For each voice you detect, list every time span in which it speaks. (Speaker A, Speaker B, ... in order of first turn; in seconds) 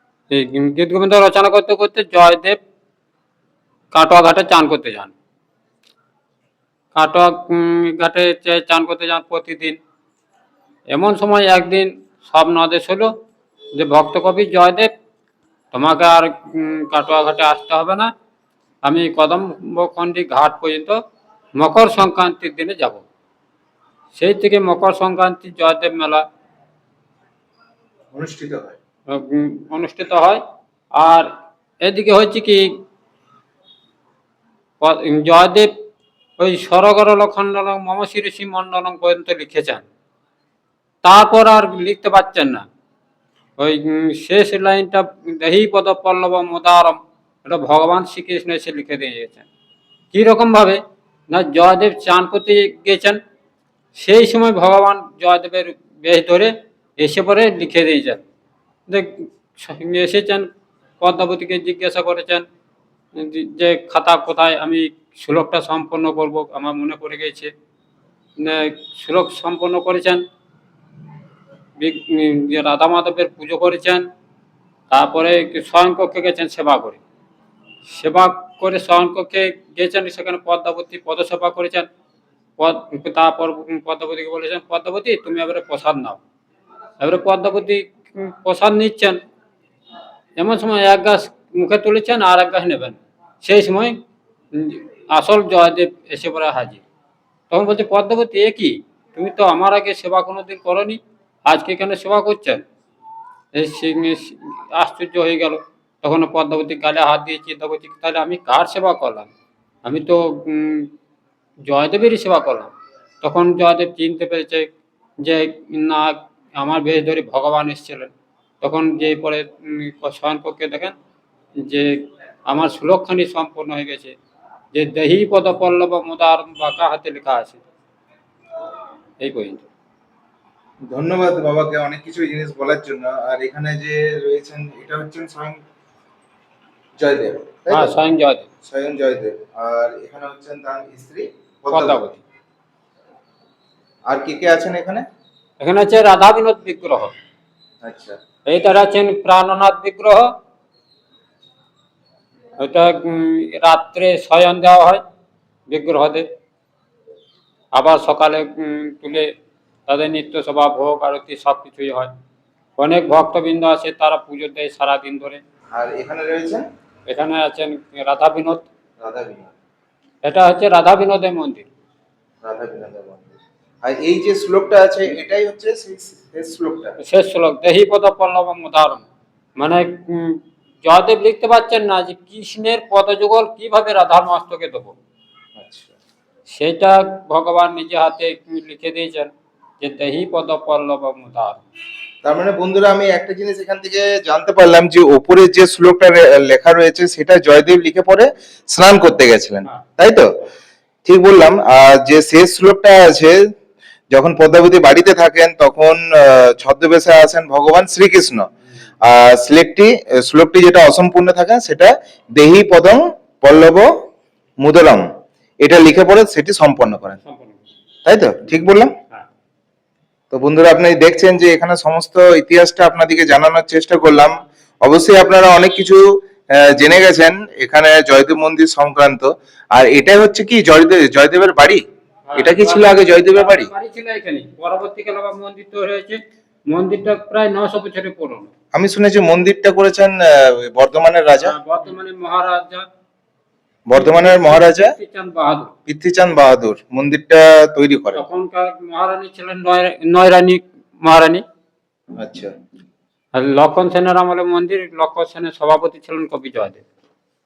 Speaker A: 0.3-2.6, 3.9-5.1, 7.0-9.8, 10.9-13.1, 13.8-14.9, 15.7-18.1, 18.8-21.0, 21.6-23.1, 24.2-26.2, 29.1-30.4, 31.0-31.3, 31.8-32.7, 34.8-35.7, 36.4-39.9, 41.0-42.7, 43.6-49.4, 50.1-53.2, 54.0-58.2, 58.9-60.5, 61.0-62.4, 63.2-67.5, 68.4-70.2, 71.8-74.0, 74.9-77.0, 77.9-81.9, 82.6-86.2, 87.0-89.2, 90.4-94.0, 94.5-96.8, 97.5-102.6, 103.5-109.3, 109.8-110.9, 111.7-112.7, 113.2-114.7, 115.2-118.1, 118.6-121.0, 121.6-124.2, 124.7-127.6, 129.2-129.7, 137.7-138.5, 141.7-142.2, 145.6-147.1, 148.5-150.3, 152.6-155.0, 155.7-156.3, 157.7-159.3, 159.9-162.1, 162.8-165.4, 167.1-168.6, 170.2-171.7, 177.0-179.1, 179.6-185.0, 186.5-191.7, 217.2-217.6, 232.3-238.5, 241.4-242.9, 243.9-245.7, 248.2-251.4, 253.3-256.8
Speaker B: 28.1-28.8, 130.9-135.6, 137.0-137.9, 138.6-142.0, 144.1-145.0, 147.8-148.2, 165.7-166.7, 169.0-169.5, 172.4-177.0, 185.6-185.9, 192.2-200.3, 201.1-203.4, 204.1-208.5, 209.1-213.9, 214.6-215.0, 215.6-217.2, 218.1-218.9, 220.3-226.0, 226.6-231.8, 232.4-233.7, 238.7-241.6, 243.9-245.0, 245.9-248.2, 252.2-252.5